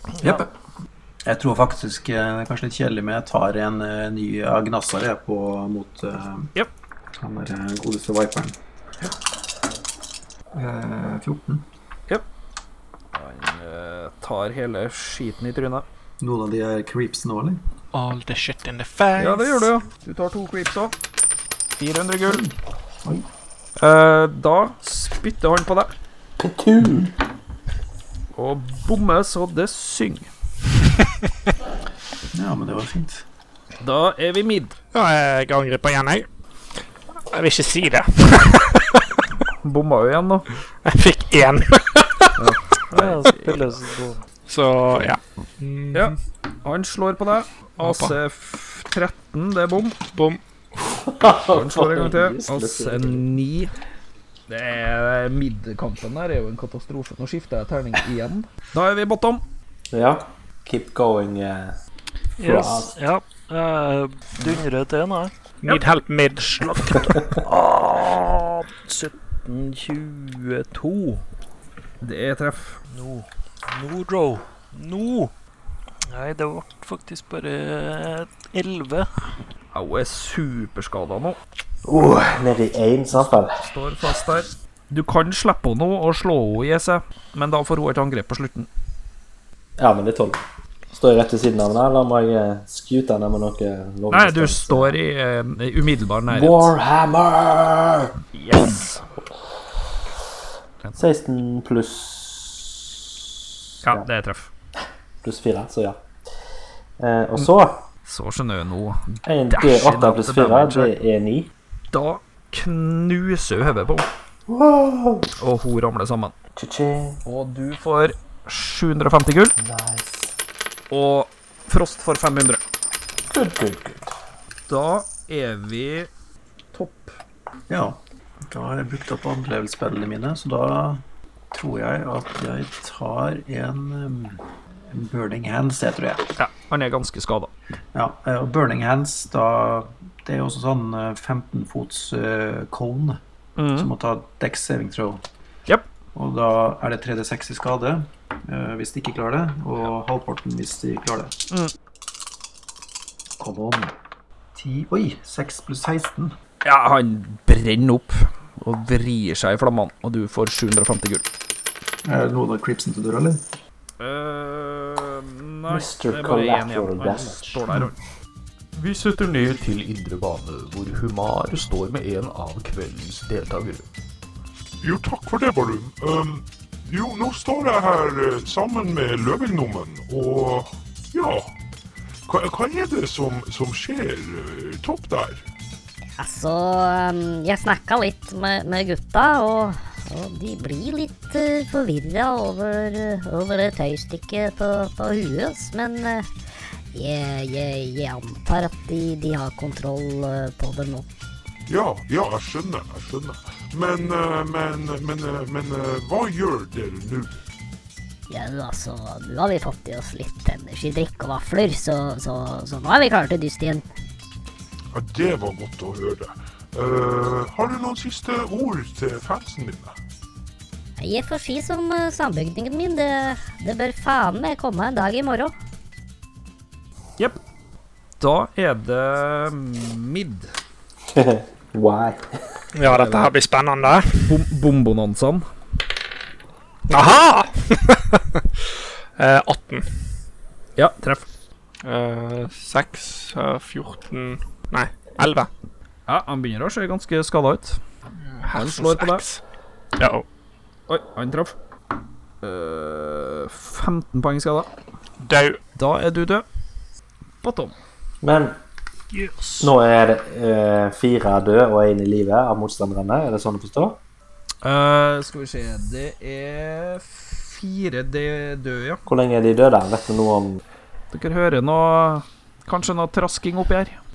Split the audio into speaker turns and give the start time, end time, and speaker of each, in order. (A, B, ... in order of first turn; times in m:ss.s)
0:00.2-0:00.5 A
0:01.3-0:06.5 A
0:07.2-0:08.6 A
0:10.5-0:11.6 A
0:13.1-0:15.8 B
0:16.2-0:17.6 A
0:17.9-0:19.7 C
0:19.2-0:21.0 B
0:21.8-0:22.4 B
0:22.3-0:23.3 A
0:23.8-0:25.9 B
0:26.4-0:27.1 D
0:28.4-0:30.3 B
0:32.3-0:33.2 A
0:33.8-0:34.8 B
0:34.9-0:36.3 C
0:37.3-0:39.0 C
0:39.6-0:40.5 B
0:40.8-0:42.3 C
0:42.4-0:43.7 B
0:42.9-0:44.2 E
0:44.5-0:46.2 C
0:45.9-0:50.0 B
0:47.8-0:48.2 C
0:50.1-0:50.4 C
0:51.1-0:53.3 D
0:51.5-0:53.7 B
0:54.5-0:59.4 B
0:59.9-1:01.8 D
1:02.4-1:02.9 D
1:02.4-1:05.3 E
1:05.6-1:07.2 C
1:07.4-1:11.2 E
1:12.0-1:12.8 B
1:12.9-1:15.3 E
1:16.1-1:19.1 E
1:19.7-1:21.4 B
1:21.8-1:23.6 D
1:23.1-1:28.7 B
1:29.8-1:35.0 D
1:34.1-1:36.7 B
1:36.3-1:38.1 D
1:38.3-1:39.0 B
1:41.0-1:43.3 D
1:43.8-1:44.5 B
1:45.2-1:46.0 D
1:47.0-1:47.8 D
1:48.1-1:50.9 B
1:49.2-1:51.5 D
1:51.9-1:54.1 B
1:54.5-1:55.3 D
1:55.4-1:56.3 B
1:56.6-1:57.2 D
1:57.2-1:59.5 B
1:59.6-2:00.3 D
2:00.9-2:02.6 B
2:03.3-2:04.1 D
2:04.7-2:06.1 B
2:06.7-2:07.2 B
2:07.7-2:16.3 A
2:16.4-2:17.5 B
2:17.9-2:23.2 A
2:23.6-2:23.9 B
2:23.7-2:25.2 A
2:26.2-2:31.3 A
2:33.4-2:33.9 A
2:34.6-2:36.4 A
2:36.6-2:41.2 B
2:42.0-2:43.4 A
2:44.0-2:48.0 B
2:45.7-2:47.6 D
2:48.8-2:53.8 F
2:54.8-3:01.5 G
3:02.3-3:05.4 G
3:06.2-3:16.3 H
3:16.9-3:21.1 H
3:21.7-3:27.4 G
3:28.3-3:33.8 H
3:34.9-3:39.9 G
3:41.0-3:45.5 H
3:48.2-3:50.5 B
3:51.1-3:52.2 D
3:52.8-3:54.3 C
3:52.8-3:53.4 B
3:54.2-3:55.5 B
3:56.9-3:58.7 C
3:59.2-3:59.9 C
4:00.8-4:01.3 B
4:01.8-4:05.5 C
4:06.1-4:07.8 B
4:08.4-4:09.4 C
4:08.5-4:09.2 B
4:10.0-4:10.2 C
4:10.9-4:11.6 B
4:12.4-4:14.7 B
4:15.2-4:15.6 C
4:15.8-4:16.4 B
4:17.4-4:17.8 B
4:18.2-4:18.6 D
4:19.1-4:19.7 E
4:19.6-4:24.0 D
4:24.6-4:29.0 B
4:29.1-4:30.6 D
4:31.1-4:34.0 B